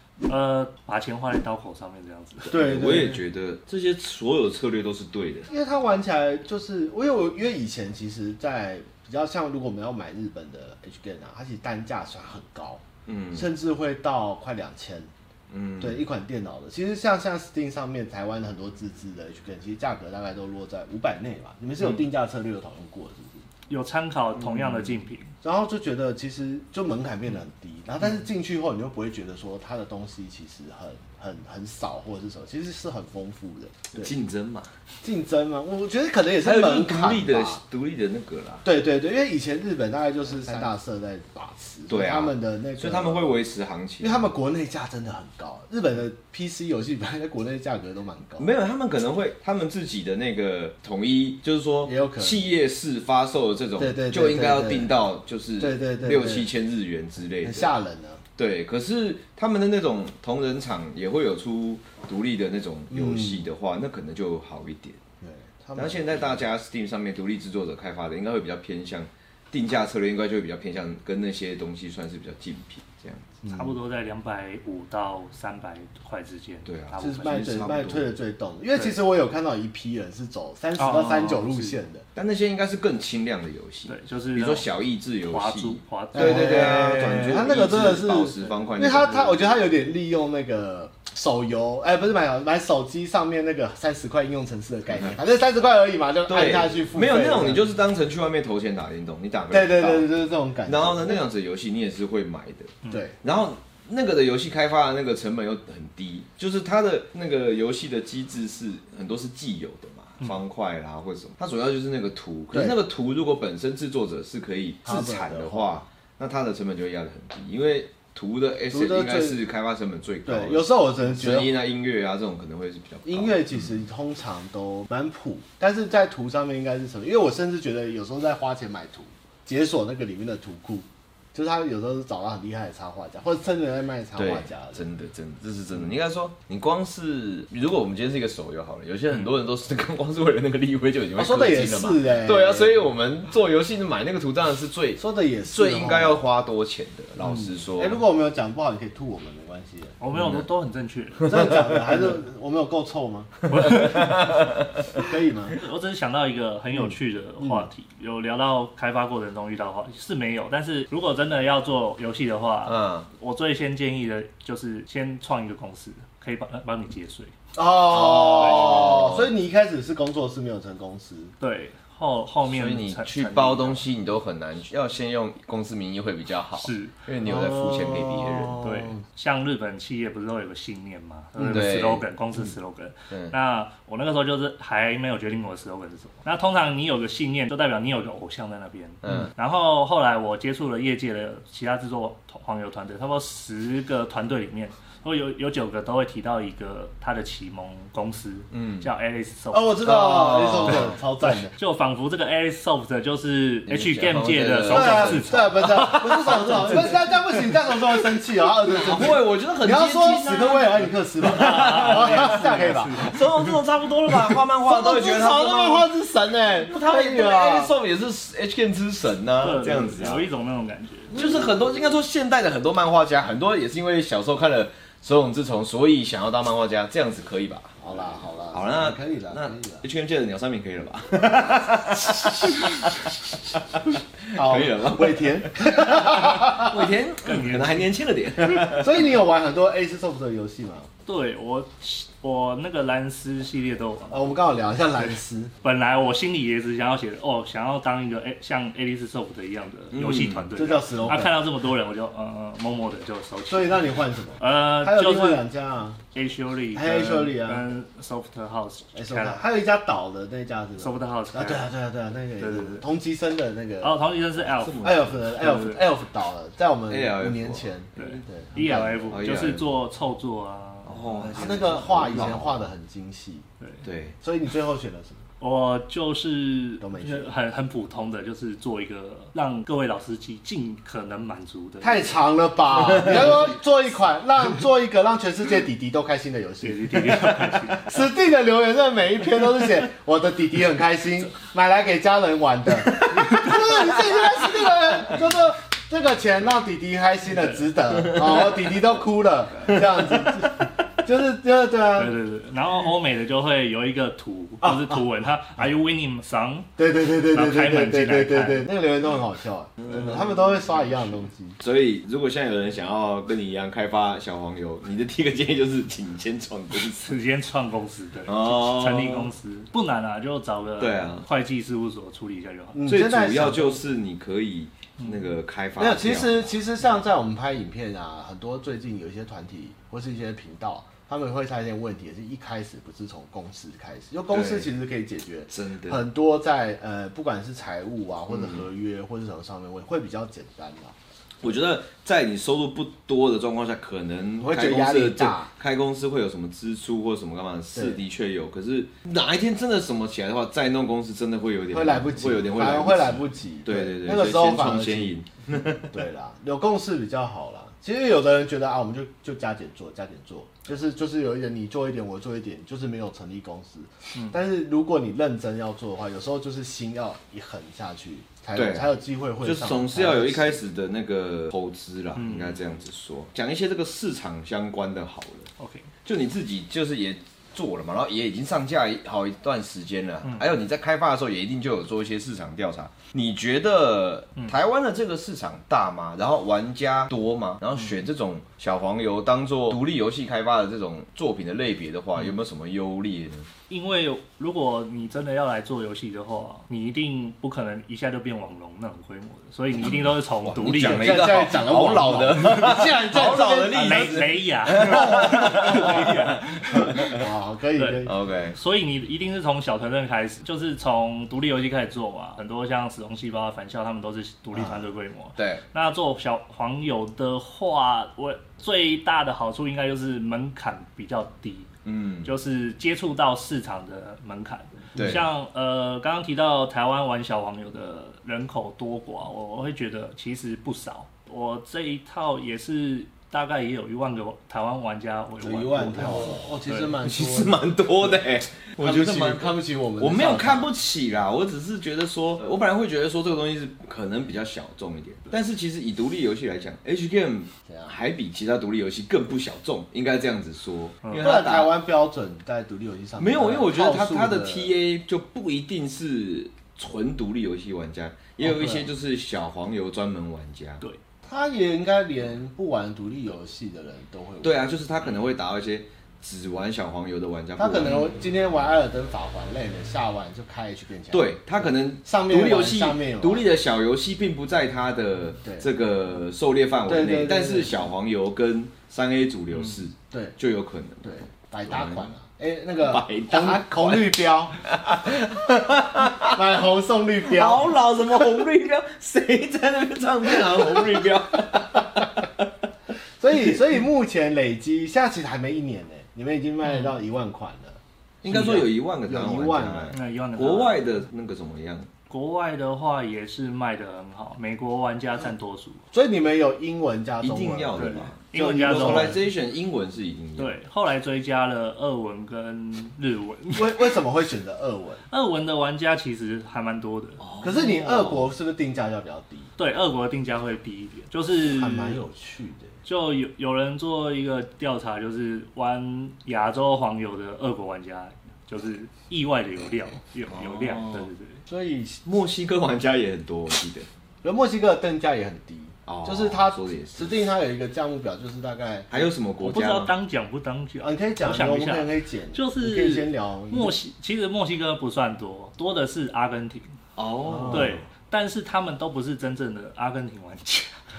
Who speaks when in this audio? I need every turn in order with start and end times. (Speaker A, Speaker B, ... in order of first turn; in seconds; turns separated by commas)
Speaker A: 0.2-2.6, Speaker B: 2.5-5.5, Speaker C: 2.5-3.2, Speaker C: 5.5-12.8, Speaker B: 13.1-13.5, Speaker C: 13.3-15.1, Speaker B: 15.5-16.0, Speaker C: 15.8-23.4, Speaker A: 23.7-25.3, Speaker C: 25.4-34.1, Speaker B: 33.9-34.7, Speaker C: 35.0-37.6, Speaker B: 36.4-38.6, Speaker C: 38.6-43.4, Speaker B: 41.9-44.3, Speaker C: 44.0-48.5, Speaker B: 48.4-57.7, Speaker C: 51.9-52.4, Speaker C: 53.8-54.9, Speaker C: 55.6-56.5, Speaker C: 57.4-58.2, Speaker B: 58.4-65.0, Speaker C: 62.9-63.5, Speaker C: 65.2-66.4, Speaker B: 65.8-73.3, Speaker C: 73.4-73.7, Speaker A: 73.5-77.5, Speaker B: 76.6-78.1, Speaker C: 77.0-82.0, Speaker A: 80.8-81.7, Speaker B: 82.1-89.5, Speaker A: 83.9-84.7, Speaker A: 85.2-86.8, Speaker C: 86.1-97.7, Speaker B: 96.3-100.1, Speaker C: 99.5-101.2, Speaker B: 100.6-123.7, Speaker C: 102.9-103.2, Speaker C: 112.5-112.8, Speaker C: 114.8-115.8, Speaker C: 118.7-119.4, Speaker C: 120.2-121.5, Speaker C: 123.0-134.8, Speaker B: 134.2-148.0, Speaker C: 141.2-142.8, Speaker C: 145.0-146.2, Speaker C: 147.2-150.0, Speaker A: 150.0-151.7, Speaker C: 151.2-153.5, Speaker A: 153.5-154.2, Speaker B: 153.6-154.5, Speaker C: 154.9-155.6, Speaker A: 155.5-167.3, Speaker C: 157.4-157.7, Speaker B: 162.7-163.1, Speaker C: 167.5-171.3, Speaker B: 167.9-169.3, Speaker A: 168.3-169.0, Speaker A: 171.4-173.8, Speaker B: 172.4-178.6, Speaker A: 176.6-176.9, Speaker C: 177.2-179.0, Speaker A: 178.6-199.9, Speaker B: 181.4-182.1, Speaker B: 189.0-189.3, Speaker B: 198.5-198.8, Speaker C: 199.5-201.5, Speaker B: 199.8-200.9, Speaker A: 201.5-206.8, Speaker B: 203.7-207.7, Speaker C: 204.7-213.2, Speaker B: 208.7-215.9, Speaker A: 211.2-213.2, Speaker C: 214.3-217.7, Speaker B: 216.6-220.2, Speaker A: 219.4-221.1, Speaker C: 221.1-221.5, Speaker B: 221.1-228.0, Speaker C: 227.8-229.8, Speaker B: 228.5-239.0, Speaker C: 234.3-236.8, Speaker A: 237.2-237.9, Speaker C: 238.6-240.9, Speaker A: 241.1-244.4, Speaker C: 244.1-245.5, Speaker A: 245.6-255.4, Speaker B: 249.9-250.5, Speaker C: 250.6-251.4, Speaker C: 253.5-256.0, Speaker A: 256.1-259.4, Speaker C: 256.7-257.7, Speaker C: 258.9-263.9, Speaker A: 260.8-261.7, Speaker A: 262.4-262.8, Speaker A: 263.8-265.8, Speaker B: 264.4-265.2, Speaker C: 264.8-269.2, Speaker B: 266.9-268.2, Speaker A: 267.9-271.6, Speaker B: 269.1-269.6, Speaker B: 270.8-272.6, Speaker C: 271.3-273.5, Speaker B: 273.8-274.1, Speaker C: 274.2-275.2, Speaker A: 275.4-282.2, Speaker C: 276.8-277.3, Speaker C: 281.8-302.1, Speaker A: 283.0-283.4, Speaker A: 286.6-287.9, Speaker B: 293.0-293.6, Speaker B: 299.7-300.0, Speaker A: 301.9-306.7, Speaker C: 304.6-305.0, Speaker C: 306.8-311.6, Speaker A: 307.3-308.7, Speaker B: 311.6-317.1, Speaker A: 316.8-322.8, Speaker B: 318.3-319.3, Speaker B: 320.8-321.2, Speaker C: 322.7-323.8, Speaker B: 322.9-326.5, Speaker A: 325.0-325.2, Speaker C: 325.8-340.9, Speaker B: 334.3-334.7, Speaker B: 335.5-336.0, Speaker B: 338.3-338.6, Speaker B: 341.4-356.0, Speaker C: 344.4-345.5, Speaker C: 347.7-348.0, Speaker C: 351.7-355.1, Speaker C: 355.8-370.6, Speaker B: 368.5-368.9, Speaker B: 369.4-375.5, Speaker A: 372.1-372.8, Speaker A: 375.6-375.9, Speaker B: 376.0-393.5, Speaker A: 393.7-401.4, Speaker B: 399.8-407.2, Speaker C: 400.7-408.1, Speaker A: 403.7-406.4, Speaker A: 407.8-421.7, Speaker B: 408.0-408.6, Speaker C: 414.5-414.8, Speaker B: 415.4-415.6, Speaker B: 421.9-422.3, Speaker A: 422.2-436.9, Speaker B: 424.9-425.2, Speaker C: 435.4-437.6, Speaker B: 437.0-451.7, Speaker C: 438.8-440.7, Speaker C: 447.7-447.9, Speaker C: 451.2-454.7, Speaker B: 453.2-460.8, Speaker C: 458.4-458.8, Speaker C: 461.2-464.5, Speaker B: 464.4-468.0, Speaker C: 467.6-473.4, Speaker B: 471.1-481.1, Speaker C: 476.9-477.7, Speaker C: 480.1-480.4, Speaker C: 481.0-484.6, Speaker B: 481.7-482.1, Speaker B: 482.8-486.4, Speaker C: 486.2-487.7, Speaker B: 487.3-492.5, Speaker C: 490.5-491.0, Speaker C: 493.2-499.9, Speaker A: 496.6-496.9, Speaker B: 498.2-501.9, Speaker A: 499.9-500.9, Speaker A: 502.1-505.8, Speaker C: 505.9-509.2, Speaker B: 507.2-510.5, Speaker A: 507.8-509.2, Speaker A: 510.4-514.0, Speaker C: 513.5-515.0, Speaker A: 515.1-517.2, Speaker B: 517.2-518.3, Speaker C: 517.4-519.5, Speaker A: 519.6-522.0, Speaker C: 521.4-522.7, Speaker A: 522.8-531.4, Speaker B: 530.3-531.1, Speaker C: 531.5-532.0, Speaker B: 532.0-533.9, Speaker C: 534.2-539.1, Speaker B: 535.9-537.2, Speaker B: 538.9-539.9, Speaker A: 539.4-546.7, Speaker C: 540.8-543.8, Speaker B: 547.0-547.7, Speaker C: 547.2-547.8, Speaker A: 547.5-550.7